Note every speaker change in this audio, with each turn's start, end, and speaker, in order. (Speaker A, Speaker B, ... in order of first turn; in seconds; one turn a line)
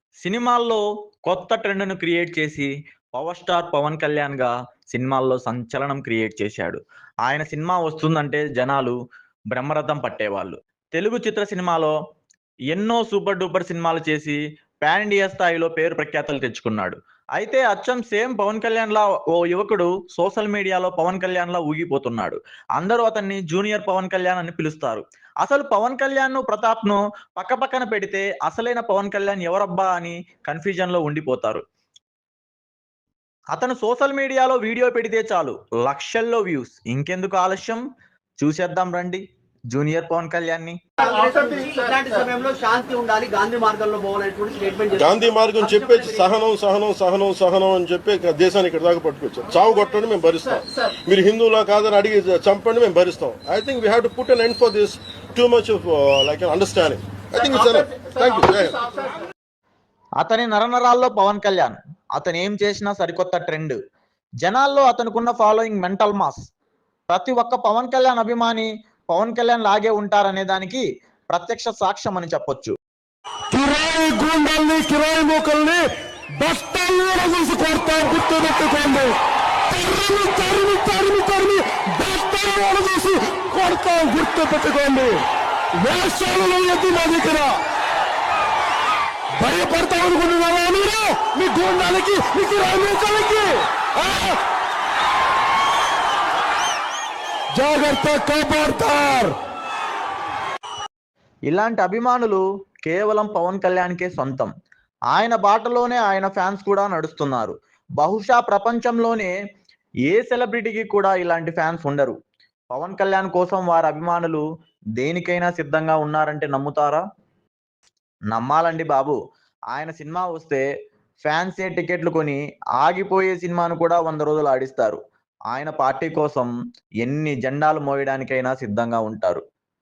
Speaker A: 0.2-8.9
Speaker A: 9.5-11.9
Speaker A: 12.7-31.6
Speaker A: 33.5-37.8
Speaker A: 38.4-40.8
Speaker B: 41.0-46.2
Speaker C: 45.0-58.8
Speaker A: 60.2-63.8
Speaker A: 64.4-66.4
Speaker A: 67.1-72.7
Speaker D: 73.5-75.8
Speaker D: 76.4-79.2
Speaker D: 79.7-85.2
Speaker D: 85.8-87.6
Speaker D: 89.4-94.4
Speaker D: 97.5-99.4
Speaker A: 101.5-104.5
Speaker A: 105.1-109.3
Speaker A: 110.1-112.2
Speaker A: 112.7-114.4
Speaker A: 115.0-117.0
Speaker A: 118.3-119.2
Speaker A: 119.7-120.6
Speaker A: 121.2-125.0
Speaker A: 125.5-126.5
Speaker A: 127.0-129.4